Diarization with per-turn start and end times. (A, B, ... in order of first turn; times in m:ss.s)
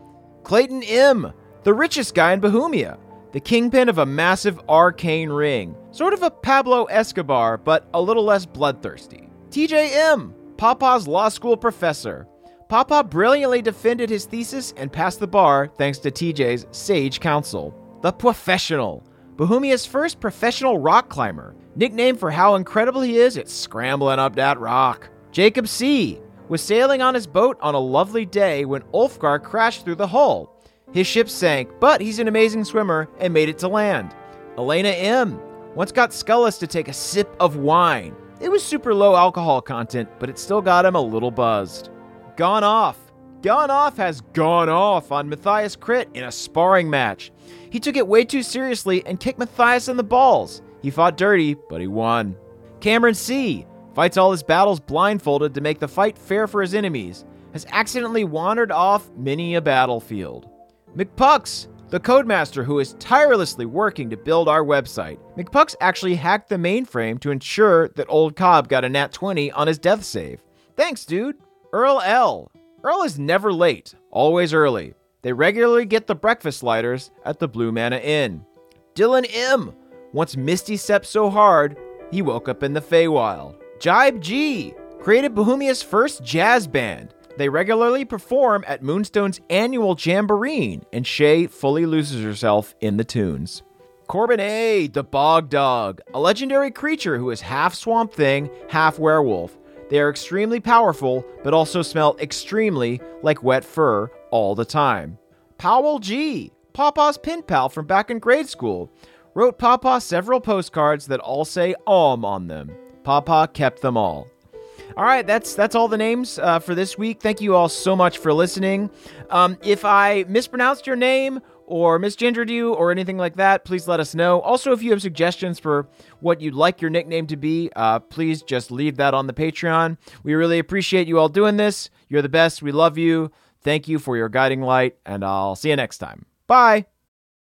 0:00.4-1:54.3 A
1:55.0-2:16.9 A